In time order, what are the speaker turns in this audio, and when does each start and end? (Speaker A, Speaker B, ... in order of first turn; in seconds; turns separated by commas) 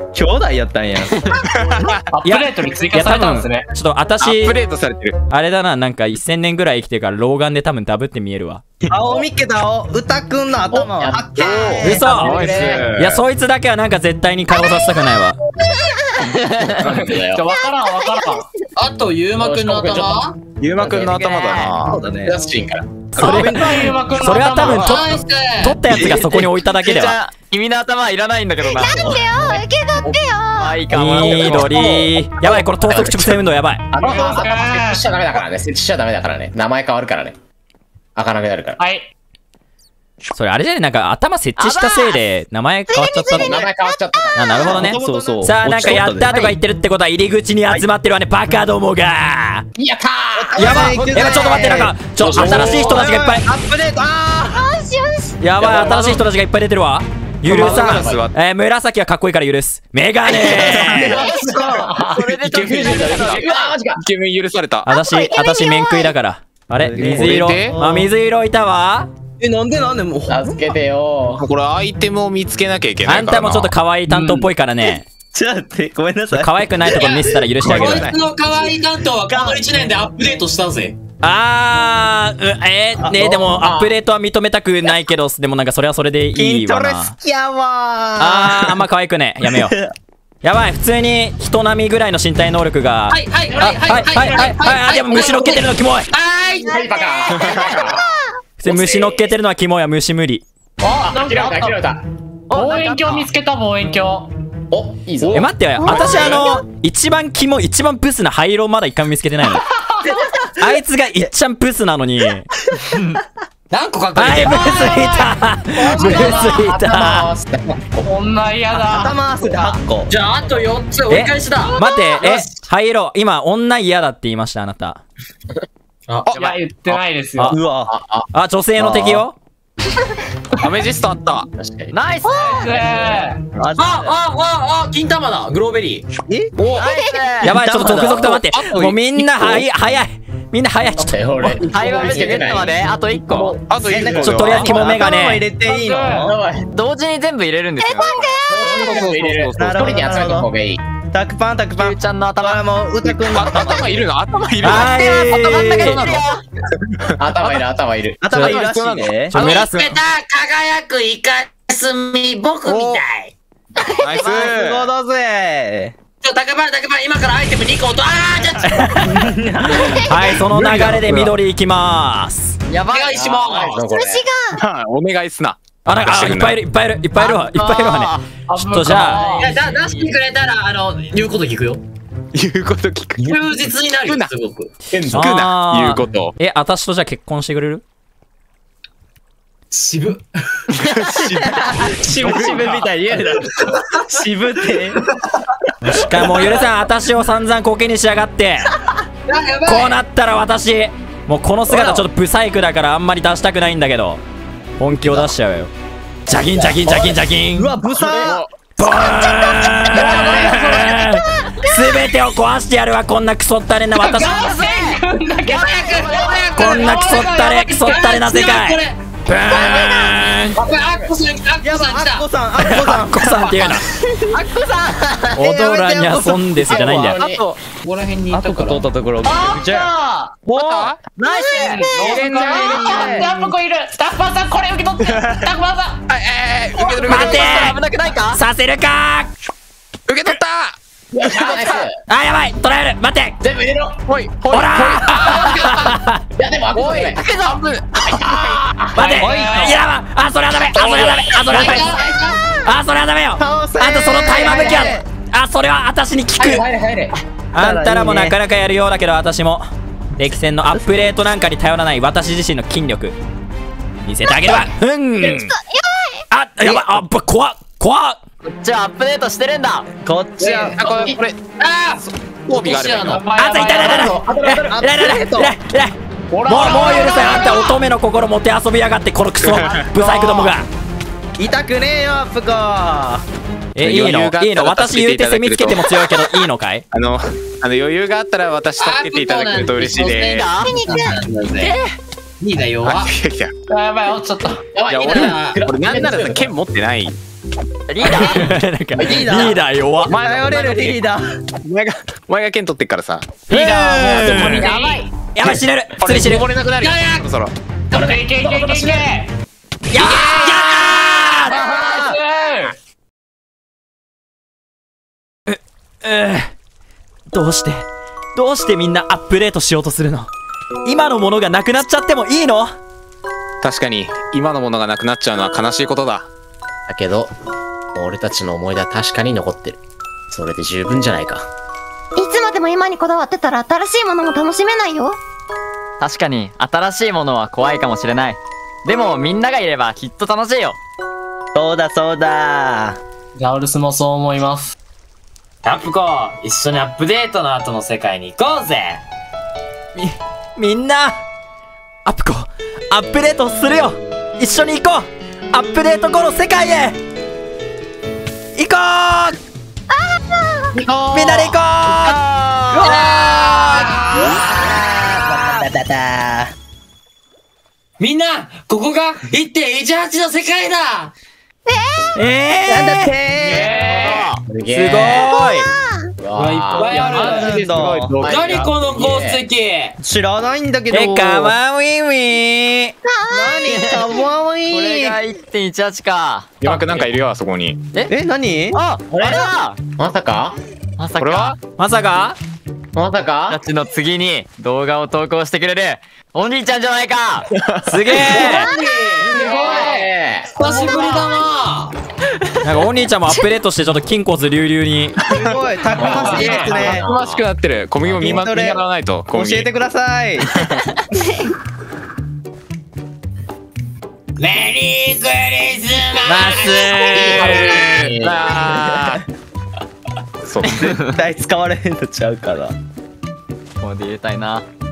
Speaker A: 0.1-1.3, Speaker B: 1.4-2.1, Speaker C: 2.1-3.7, Speaker D: 2.2-4.6, Speaker B: 4.2-5.2, Speaker D: 5.3-8.6, Speaker A: 8.9-12.8, Speaker E: 10.7-12.9, Speaker B: 11.4-13.2, Speaker D: 11.8-15.4, Speaker F: 14.5-14.9, Speaker F: 15.4-16.3, Speaker G: 16.3-16.9, Speaker E: 16.6-17.5, Speaker C: 17.3-18.4, Speaker F: 17.5-18.5, Speaker H: 18.8-20.4, Speaker E: 19.4-20.2, Speaker B: 20.6-22.0, Speaker E: 20.7-21.2, Speaker G: 21.1-21.8, Speaker A: 21.8-22.4, Speaker E: 22.2-23.5, Speaker D: 23.1-27.2, Speaker C: 23.2-24.9, Speaker B: 24.6-25.0, Speaker H: 24.8-25.8, Speaker A: 25.9-26.5, Speaker G: 26.7-28.9, Speaker F: 28.6-30.7, Speaker A: 28.8-29.3, Speaker G: 30.6-31.9, Speaker D: 30.9-33.9, Speaker B: 31.3-31.8, Speaker A: 31.7-32.1, Speaker E: 33.9-37.4, Speaker C: 34.0-35.0, Speaker E: 38.2-38.8, Speaker C: 38.8-39.1, Speaker D: 40.3-43.5, Speaker G: 41.6-42.2, Speaker F: 42.9-44.9, Speaker E: 43.3-45.2, Speaker D: 44.4-49.6, Speaker A: 44.6-46.6, Speaker E: 49.8-51.5, Speaker A: 50.4-54.6, Speaker D: 50.6-53.5, Speaker B: 52.2-53.0, Speaker F: 54.5-55.4, Speaker D: 55.4-61.2, Speaker B: 55.6-56.2, Speaker B: 57.5-58.3, Speaker E: 57.6-58.3, Speaker B: 60.4-61.1, Speaker F: 61.1-61.6, Speaker A: 61.2-62.0, Speaker G: 62.1-63.7, Speaker B: 62.3-64.9, Speaker E: 62.5-64.0, Speaker D: 64.8-69.1, Speaker F: 64.9-66.1, Speaker A: 66.8-68.1, Speaker B: 67.0-67.8, Speaker A: 69.4-70.5, Speaker E: 70.3-71.4, Speaker B: 71.4-73.7, Speaker D: 73.1-75.1, Speaker A: 74.1-77.6, Speaker D: 76.3-78.1, Speaker H: 77.0-81.0, Speaker B: 77.7-78.2, Speaker A: 79.3-79.6, Speaker D: 81.2-87.2, Speaker A: 83.0-83.5, Speaker E: 83.4-84.0, Speaker A: 86.3-88.8, Speaker D: 88.2-89.8, Speaker A: 89.4-89.9, Speaker D: 90.4-96.1, Speaker H: 93.1-96.8, Speaker F: 96.7-98.3, Speaker E: 96.7-98.0, Speaker B: 97.4-97.7, Speaker D: 98.6-100.4, Speaker E: 98.6-99.2, Speaker C: 100.8-101.8, Speaker E: 100.9-102.0, Speaker G: 102.5-103.3, Speaker C: 102.5-104.3, Speaker E: 104.7-105.6, Speaker D: 105.3-109.6, Speaker F: 105.8-106.6, Speaker A: 110.2-111.3, Speaker D: 110.6-112.5, Speaker H: 113.7-115.2, Speaker D: 114.2-117.3, Speaker H: 115.8-116.5, Speaker A: 115.8-116.3, Speaker E: 116.0-118.1, Speaker C: 118.1-119.2, Speaker A: 118.7-120.1, Speaker H: 120.1-122.4, Speaker D: 121.1-125.0, Speaker H: 126.1-126.7, Speaker B: 126.3-127.0, Speaker C: 126.4-127.5, Speaker A: 127.5-127.9, Speaker E: 127.9-129.2, Speaker D: 128.3-129.4, Speaker B: 130.6-131.5, Speaker E: 131.6-132.0, Speaker G: 131.9-132.5, Speaker F: 132.2-132.8, Speaker H: 132.4-132.6, Speaker C: 132.6-133.4, Speaker A: 133.6-134.2, Speaker H: 133.8-136.1, Speaker A: 136.3-136.5, Speaker F: 136.8-137.3, Speaker G: 136.8-138.0, Speaker D: 137.4-141.6, Speaker A: 137.4-138.4, Speaker B: 138.1-139.5, Speaker E: 141.0-143.4, Speaker G: 141.7-143.6, Speaker B: 143.5-144.8, Speaker A: 143.8-146.3, Speaker D: 144.2-145.4, Speaker G: 144.5-144.8, Speaker C: 145.7-146.2, Speaker E: 146.3-146.7, Speaker G: 146.7-147.9, Speaker F: 147.8-148.9, Speaker B: 147.8-149.8, Speaker E: 148.5-150.8, Speaker A: 148.9-150.5, Speaker A: 151.1-154.1, Speaker G: 151.8-152.6, Speaker B: 153.2-155.1, Speaker D: 154.6-156.0, Speaker H: 154.7-156.1, Speaker G: 154.8-156.4, Speaker E: 157.2-158.3, Speaker A: 158.2-159.3, Speaker D: 158.3-158.6, Speaker B: 158.4-160.0, Speaker D: 159.3-159.8, Speaker H: 159.3-163.3, Speaker B: 162.7-163.0, Speaker B: 163.9-164.9, Speaker A: 164.1-165.9, Speaker H: 166.2-169.1, Speaker A: 169.0-171.3, Speaker F: 169.8-170.3, Speaker D: 169.9-172.6, Speaker G: 172.7-173.1, Speaker H: 172.9-173.9, Speaker E: 173.1-174.3, Speaker F: 173.9-174.6, Speaker B: 174.6-176.6, Speaker D: 175.8-179.2, Speaker G: 177.2-178.3, Speaker C: 178.5-179.6, Speaker H: 178.9-181.8, Speaker G: 179.2-180.1, Speaker B: 182.3-184.3, Speaker H: 183.2-184.7, Speaker E: 184.9-185.2, Speaker B: 185.1-186.3, Speaker D: 185.1-187.8, Speaker H: 189.7-190.2, Speaker B: 190.8-192.8, Speaker A: 191.4-195.0, Speaker E: 192.1-193.3, Speaker D: 195.9-198.7, Speaker H: 199.3-200.0, Speaker D: 199.7-204.2, Speaker A: 201.7-202.1, Speaker D: 204.8-205.7, Speaker A: 204.9-205.3, Speaker D: 206.3-207.7, Speaker A: 206.9-208.4, Speaker B: 208.0-208.5, Speaker D: 208.8-214.4, Speaker F: 208.8-212.0, Speaker H: 210.0-210.7, Speaker A: 210.0-210.4, Speaker C: 214.0-215.7, Speaker G: 214.2-215.0, Speaker H: 215.5-222.3, Speaker G: 215.6-216.4, Speaker D: 216.5-220.6, Speaker A: 221.6-223.5, Speaker D: 222.7-223.8, Speaker A: 224.2-227.3, Speaker D: 225.3-227.2, Speaker E: 226.6-227.5, Speaker H: 227.7-228.8, Speaker A: 228.3-229.9, Speaker C: 229.3-230.4, Speaker A: 230.4-231.0, Speaker B: 230.5-231.1, Speaker G: 231.1-231.8, Speaker F: 231.4-231.9, Speaker C: 231.6-236.0, Speaker H: 231.9-232.3, Speaker B: 232.0-233.3, Speaker A: 232.4-233.4, Speaker B: 235.0-235.5, Speaker B: 236.1-237.8, Speaker G: 237.0-238.4, Speaker D: 237.1-237.8, Speaker D: 238.3-239.3, Speaker B: 240.1-241.8, Speaker E: 241.1-241.9, Speaker D: 242.1-243.4, Speaker E: 243.4-244.0, Speaker B: 244.1-246.0, Speaker D: 244.5-246.2, Speaker H: 245.2-245.8, Speaker E: 246.4-247.2, Speaker B: 246.7-248.4, Speaker G: 246.9-247.6, Speaker E: 248.1-248.9, Speaker D: 248.9-251.9, Speaker A: 249.2-249.8, Speaker H: 249.3-249.7, Speaker B: 250.7-251.7, Speaker H: 251.0-252.4, Speaker D: 252.6-256.6, Speaker A: 253.4-255.1, Speaker E: 254.4-255.0, Speaker E: 256.4-257.1, Speaker D: 257.5-263.1, Speaker A: 257.6-258.4, Speaker D: 264.1-265.5, Speaker F: 265.3-266.2, Speaker D: 266.3-268.2, Speaker G: 268.5-269.9, Speaker A: 270.0-270.9, Speaker H: 270.5-271.0, Speaker B: 270.5-271.5, Speaker H: 271.6-274.2, Speaker B: 272.0-273.3, Speaker D: 273.4-280.7, Speaker E: 273.7-274.8, Speaker A: 274.5-275.6, Speaker E: 276.3-277.5, Speaker H: 277.0-277.3, Speaker B: 279.4-279.9, Speaker A: 280.2-280.5, Speaker A: 281.4-283.2, Speaker D: 283.8-286.9, Speaker B: 283.8-285.9, Speaker B: 286.9-290.5, Speaker H: 288.8-291.7, Speaker G: 290.0-290.7, Speaker F: 290.6-291.2, Speaker G: 291.6-291.9, Speaker H: 292.4-293.1, Speaker B: 292.8-293.5, Speaker C: 293.7-294.6, Speaker E: 294.7-296.6, Speaker B: 294.9-297.2, Speaker H: 295.1-295.6, Speaker G: 297.9-298.5, Speaker D: 298.0-300.1, Speaker E: 299.0-299.5, Speaker A: 299.0-301.2, Speaker B: 300.1-301.0, Speaker B: 301.6-303.5, Speaker D: 303.5-304.7, Speaker C: 303.5-305.0, Speaker E: 304.5-304.9, Speaker D: 305.4-306.5, Speaker B: 306.0-307.5, Speaker H: 306.8-307.3, Speaker E: 307.9-309.1, Speaker C: 308.0-309.3, Speaker H: 308.4-308.6, Speaker D: 309.9-311.6, Speaker B: 309.9-310.9, Speaker A: 311.5-312.0, Speaker C: 311.6-312.8, Speaker D: 315.5-316.5, Speaker D: 317.3-320.3, Speaker D: 320.9-322.7, Speaker B: 323.6-326.3, Speaker E: 326.9-327.3, Speaker E: 327.9-329.8, Speaker E: 330.3-331.5, Speaker F: 332.2-335.2, Speaker G: 336.0-340.8, Speaker A: 341.5-343.0, Speaker C: 343.4-344.8, Speaker H: 345.6-349.0, Speaker D: 350.0-351.2, Speaker D: 352.1-357.0, Speaker D: 358.6-359.4, Speaker F: 359.9-360.8, Speaker E: 360.9-361.6, Speaker D: 361.1-362.2, Speaker D: 362.7-364.0, Speaker H: 362.9-364.8, Speaker A: 364.5-366.5, Speaker H: 368.0-371.1, Speaker F: 371.7-372.1, Speaker D: 372.1-373.1, Speaker A: 372.7-374.1, Speaker H: 373.4-374.3, Speaker E: 373.8-375.3, Speaker G: 374.1-374.4, Speaker D: 374.7-375.7, Speaker F: 375.2-376.1, Speaker E: 376.2-379.4, Speaker H: 376.4-377.7, Speaker A: 376.9-378.1, Speaker B: 377.0-378.6, Speaker H: 378.2-380.0, Speaker A: 380.0-381.6, Speaker D: 380.9-382.9, Speaker F: 383.1-384.2, Speaker A: 383.3-385.2, Speaker G: 383.7-384.0, Speaker G: 384.7-386.5, Speaker E: 386.6-387.1, Speaker B: 386.6-387.8, Speaker A: 388.1-388.8, Speaker G: 388.7-389.8, Speaker E: 390.0-390.6, Speaker G: 391.0-391.6, Speaker B: 391.2-391.6, Speaker D: 391.8-392.4, Speaker E: 393.0-393.6, Speaker G: 393.5-397.5, Speaker B: 397.5-398.1, Speaker D: 397.8-398.7, Speaker H: 398.1-401.9, Speaker E: 399.3-400.5, Speaker C: 399.4-399.7, Speaker C: 400.7-401.2, Speaker D: 402.6-405.2, Speaker A: 405.3-407.1, Speaker B: 405.4-409.7, Speaker H: 406.0-406.8, Speaker E: 406.2-407.5, Speaker A: 408.1-410.5, Speaker H: 414.4-417.7, Speaker D: 416.2-417.8, Speaker E: 417.1-418.5, Speaker B: 417.4-419.2, Speaker B: 420.4-421.0, Speaker G: 420.7-421.1, Speaker A: 421.1-422.8, Speaker G: 423.8-424.6